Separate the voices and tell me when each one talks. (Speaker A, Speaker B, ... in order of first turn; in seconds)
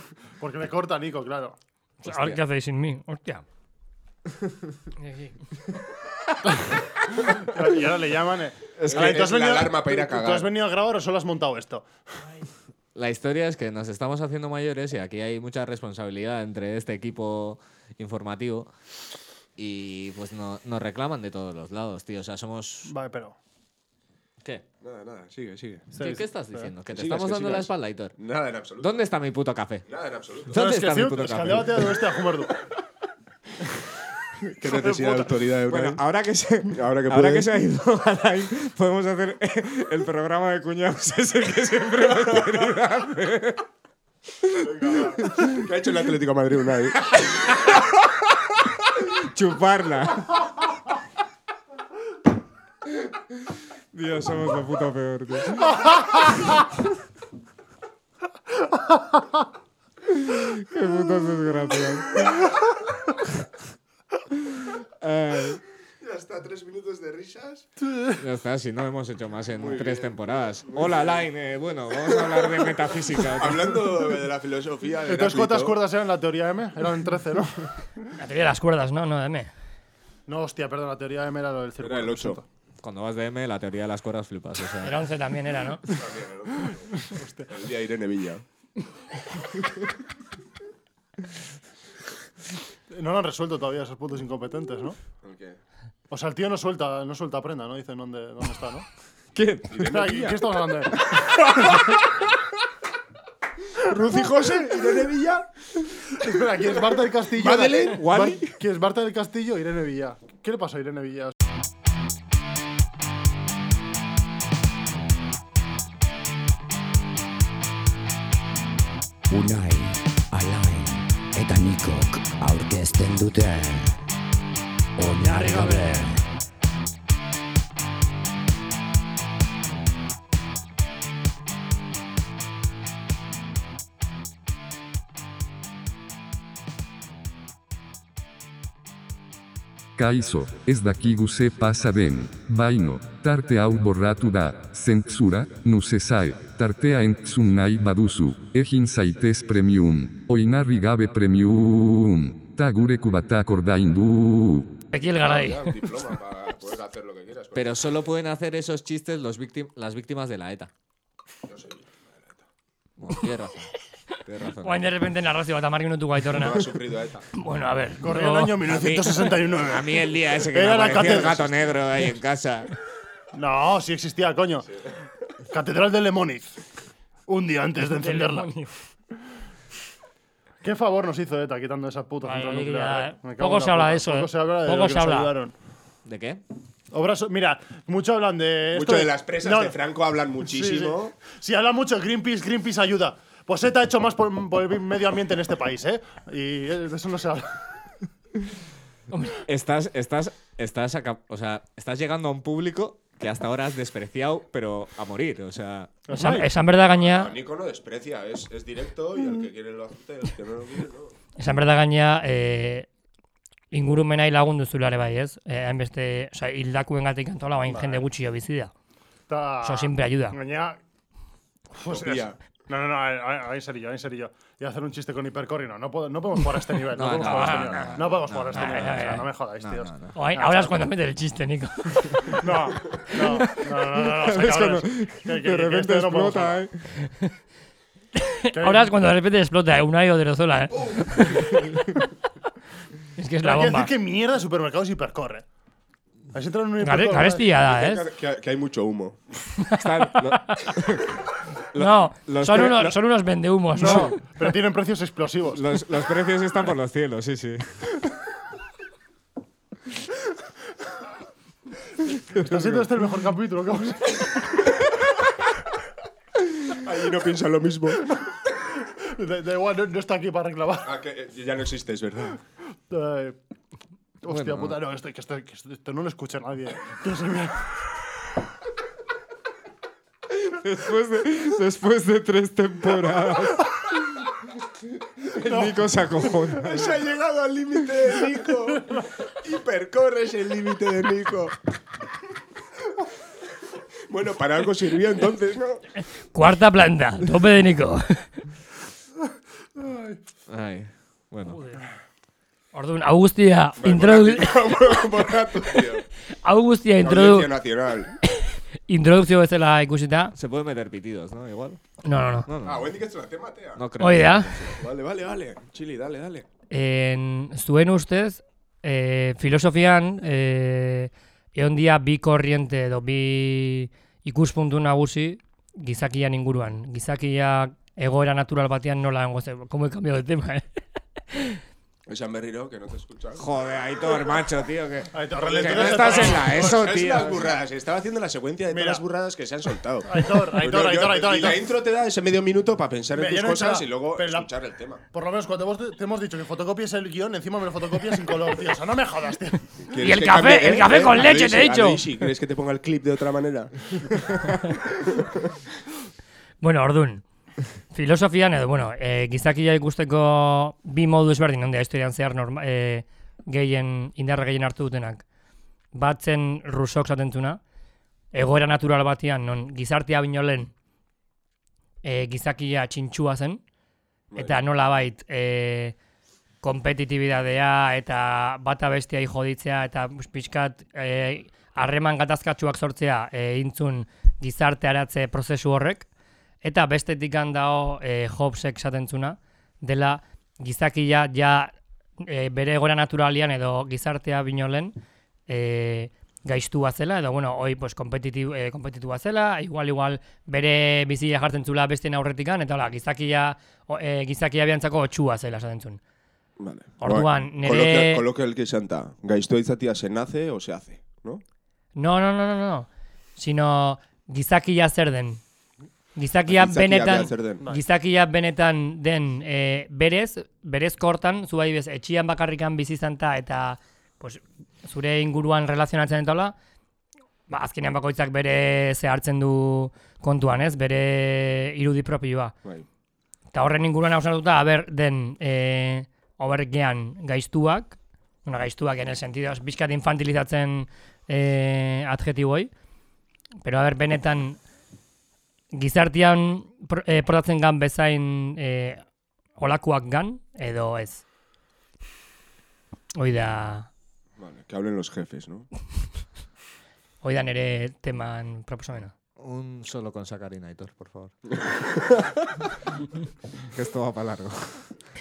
Speaker A: 0.4-1.6, 7.3-11.9, 22.9-23.4, 25.9-26.7, 30.5-32.5, 34.6-35.3, 44.6-45.2, 67.8-68.2, 75.1-77.7, 80.3-82.5, 87.0-87.5, 92.9-95.0, 96.1-98.9, 99.8-101.1, 106.1-111.3, 125.2-126.0, 168.0-171.5, 173.3-174.7, 175.5-176.6, 177.3-178.5, 180.6-185.6, 186.9-189.8, 190.4-197.6, 206.1-206.5, 217.7-218.0, 219.3-220.8, 221.7-230.8, 232.3-236.6, 238.5-238.9, 243.4-245.5, 246.3-247.5, 253.8-255.6, 262.4-264.7, 268.9-270.9, 272.9-273.4, 274.2-277.8, 285.5-285.7, 299.8-300.2, 335.1-336.8, 338.7-339.0, 340.1-341.6, 343.1-344.5, 345.1-349.7
Speaker B: 2.0-3.4, 5.0-5.4, 78.2-79.5, 84.8-85.8, 154.9-155.8, 164.6-166.7, 167.3-168.6, 177.8-178.7, 182.2-185.3, 199.1-199.4, 206.1-207.3, 211.4-212.9, 213.7-218.7, 219.6-220.4, 227.2-229.3, 230.2-232.4, 233.1-233.4, 238.2-241.7, 243.2-243.9, 246.8-248.1, 249.6-250.7, 251.8-254.2, 296.3-298.4, 301.5-301.8, 302.7-305.1, 306.3-307.5, 308.3-310.3, 312.0-312.5, 314.0-314.6, 316.7-330.7, 331.3-331.6, 350.0-352.1, 356.6-357.2, 357.9-365.2, 365.9-367.6, 368.3-370.7, 372.0-373.6, 374.4-376.0, 376.6-386.1, 386.6-394.9, 395.5-406.0, 407.0-408.2, 412.0-415.4, 416.2-426.5, 427.5-432.6, 433.5-442.7, 443.6-444.6, 445.7-449.0, 449.6-451.2, 453.2-453.9, 457.2-459.1
Speaker C: 2.0-2.4, 8.8-9.2, 12.9-18.7, 19.6-22.9, 26.0-28.1, 28.8-29.9, 30.5-32.0, 35.7-43.6, 44.4-45.6, 47.1-47.9, 49.0-50.6, 53.9-56.6, 60.1-62.4, 64.5-65.6, 68.2-73.8, 82.8-85.0, 99.3-100.1, 107.9-108.6, 157.6-160.7, 163.0-163.7, 164.2-164.9, 168.7-172.7, 186.1-186.4, 199.5-205.9, 226.9-230.2, 234.0-236.9, 249.8-251.1, 251.7-252.9, 253.8-254.2, 255.5-257.9, 262.4-262.9, 274.3-274.8, 280.3-283.8, 285.2-286.9, 300.5-301.6, 310.4-311.8, 312.5-312.9, 313.8-314.7, 333.4-337.4, 459.4-461.3, 463.7-464.9
Speaker D: 8.8-10.5, 24.8-25.9, 26.9-29.0, 29.9-30.6, 34.6-36.0, 36.7-37.5, 45.3-47.1, 66.0-67.7, 69.6-71.2, 72.1-75.8, 81.8-82.4, 85.9-86.9, 87.5-88.4, 95.2-95.6, 99.7-100.5, 103.8-105.5, 106.2-106.6, 107.3-108.1, 155.0-157.9, 161.5-162.4, 166.3-167.3, 188.7-191.2, 206.7-211.1, 221.9-222.4, 247.6-249.2, 266.7-268.1, 270.8-272.4, 286.6-291.6, 294.1-295.8, 303.8-306.1, 307.0-308.1, 312.6-316.5, 332.1-333.5, 335.4-345.0, 349.9-354.2, 354.9-355.5, 374.3-374.6, 406.6-411.4, 416.5-417.6, 454.4-455.7, 461.6-462.3
Speaker E: 119.3-124.0, 125.0-126.3
Speaker F: 140.0-154.8